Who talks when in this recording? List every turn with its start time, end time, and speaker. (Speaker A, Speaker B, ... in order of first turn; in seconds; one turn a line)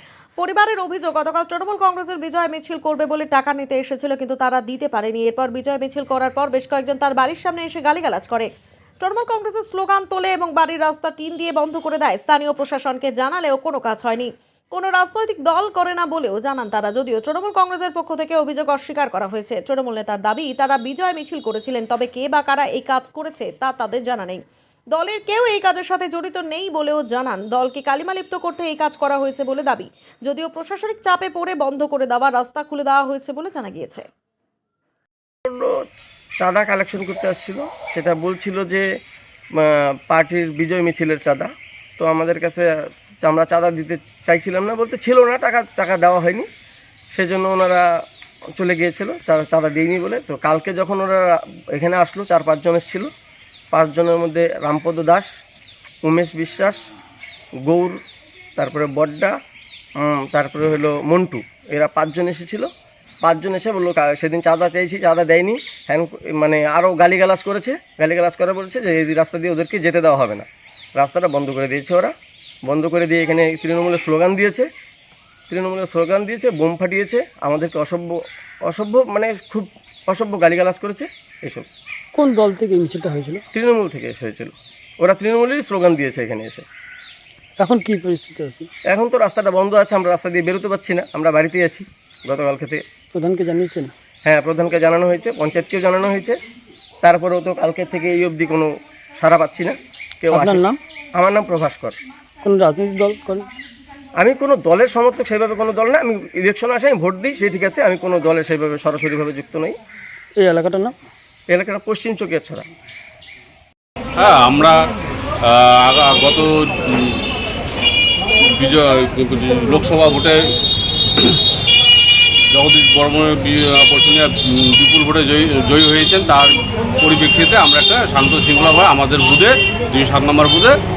Speaker A: 0.4-8.5
Speaker A: 9.0-24.4
Speaker A: 24.9-34.1
Speaker B: 35.5-35.9
Speaker B: 36.4-38.9
Speaker B: 39.5-42.7
Speaker B: 43.2-46.5
Speaker B: 47.1-47.9
Speaker B: 48.6-53.1
Speaker B: 53.7-55.3
Speaker B: 56.0-56.9
Speaker B: 57.6-58.0
Speaker B: 58.6-59.4
Speaker B: 60.0-62.7
Speaker B: 63.2-72.1
Speaker B: 72.7-74.7
Speaker B: 75.5-81.7
Speaker C: 82.2-83.4
Speaker B: 83.5-86.7
Speaker C: 87.6-88.7
Speaker B: 88.9-92.8
Speaker C: 93.1-93.9
Speaker B: 94.2-96.4
Speaker B: 97.0-102.0
Speaker C: 100.3-100.8
Speaker C: 102.4-103.5
Speaker B: 104.2-109.8
Speaker C: 110.4-110.9
Speaker B: 111.5-112.7
Speaker D: 114.2-114.8
Speaker D: 115.5-117.2
Speaker D: 118.5-120.5
Speaker D: 122.5-130.8